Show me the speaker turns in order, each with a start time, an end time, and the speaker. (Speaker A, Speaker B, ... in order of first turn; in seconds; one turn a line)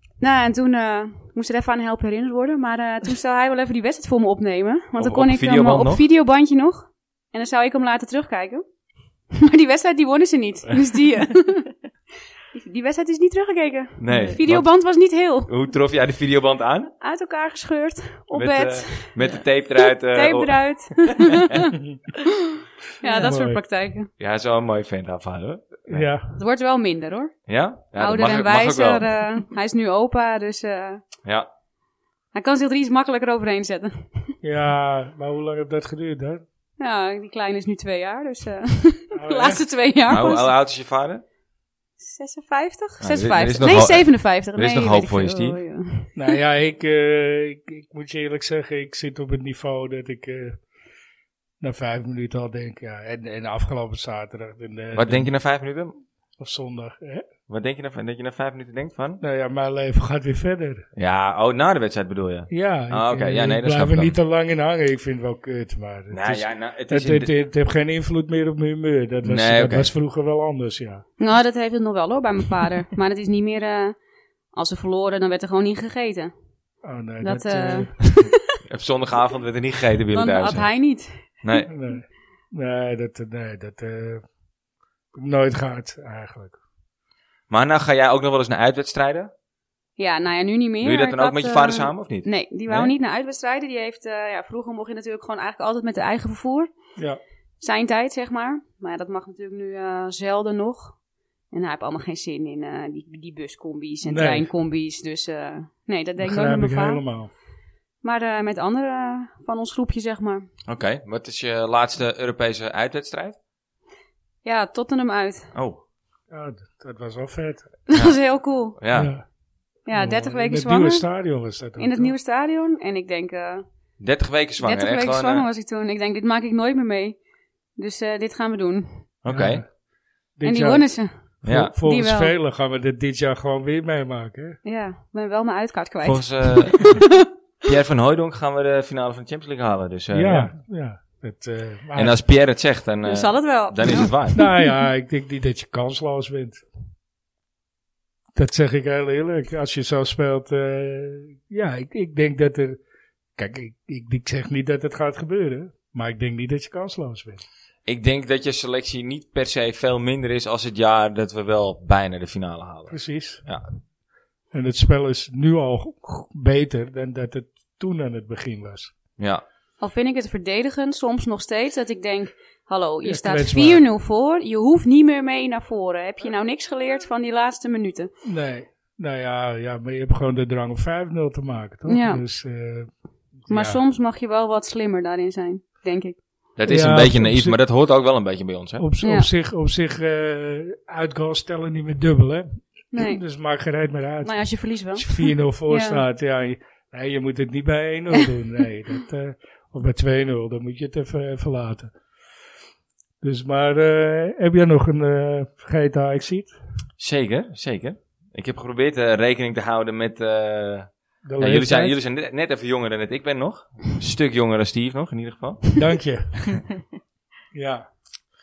Speaker A: 0.2-8.6
Speaker B: 5.0-6.0
Speaker A: 9.3-11.7
Speaker A: 12.5-15.5
Speaker B: 14.0-14.8
Speaker B: 15.5-16.9
Speaker A: 17.0-21.7
Speaker B: 18.3-21.6
Speaker A: 23.0-24.1
Speaker C: 23.1-23.6
Speaker B: 24.2-26.1
Speaker C: 25.9-26.4
Speaker A: 26.4-27.4
Speaker B: 27.5-29.1
Speaker A: 27.9-31.0
Speaker A: 32.3-34.3
Speaker C: 34.4-36.4
Speaker A: 36.8-40.5
Speaker C: 39.1-39.6
Speaker B: 40.1-41.2
Speaker A: 42.0-46.4
Speaker B: 43.0-45.6
Speaker C: 46.2-50.6
Speaker C: 51.6-55.3
Speaker B: 54.9-56.0
Speaker C: 56.4-57.3
Speaker B: 57.5-59.2
Speaker C: 59.2-60.9
Speaker B: 61.0-64.2
Speaker C: 62.5-71.0
Speaker B: 66.1-67.3
Speaker B: 69.2-69.9
Speaker A: 71.2-74.0
Speaker A: 74.5-76.3
Speaker C: 76.8-78.0
Speaker A: 77.2-78.4
Speaker B: 78.7-80.7
Speaker A: 80.1-81.3
Speaker B: 81.4-81.7
Speaker C: 81.7-84.3
Speaker C: 85.1-86.6
Speaker B: 87.5-89.3
Speaker A: 90.0-96.7
Speaker B: 90.8-92.9
Speaker A: 97.6-101.0
Speaker A: 101.5-107.0
Speaker C: 104.1-104.5
Speaker C: 106.2-107.3
Speaker A: 108.0-110.5
Speaker B: 110.7-113.4
Speaker A: 114.4-115.5
Speaker B: 115.5-115.8
Speaker C: 116.3-117.7
Speaker A: 117.9-118.8
Speaker B: 118.8-119.1
Speaker C: 118.9-119.3
Speaker A: 119.9-121.1
Speaker C: 119.9-122.1
Speaker A: 121.8-123.7
Speaker B: 124.0-125.5
Speaker A: 124.6-127.2
Speaker A: 127.8-129.1
Speaker B: 129.2-129.6
Speaker C: 129.3-129.7
Speaker C: 130.4-134.6
Speaker A: 130.4-132.3
Speaker B: 131.4-131.7
Speaker A: 134.7-137.0
Speaker B: 136.0-137.0
Speaker B: 137.7-140.5
Speaker C: 140.1-142.2
Speaker B: 141.9-144.4
Speaker A: 143.1-144.7
Speaker C: 144.3-146.6
Speaker C: 148.3-152.8
Speaker C: 153.4-157.4
Speaker B: 157.9-163.7
Speaker C: 162.9-163.5
Speaker C: 164.5-168.9
Speaker B: 169.2-169.4
Speaker A: 169.8-178.1
Speaker C: 173.0-173.8
Speaker C: 178.2-183.8
Speaker A: 181.9-182.2
Speaker A: 183.5-186.2
Speaker B: 186.6-188.8
Speaker C: 186.7-187.6
Speaker C: 188.8-201.9
Speaker A: 189.0-189.3
Speaker A: 192.9-193.2
Speaker A: 194.2-196.0
Speaker C: 203.2-206.6
Speaker B: 207.0-215.7
Speaker C: 211.2-212.0
Speaker C: 215.8-216.7
Speaker C: 217.5-217.9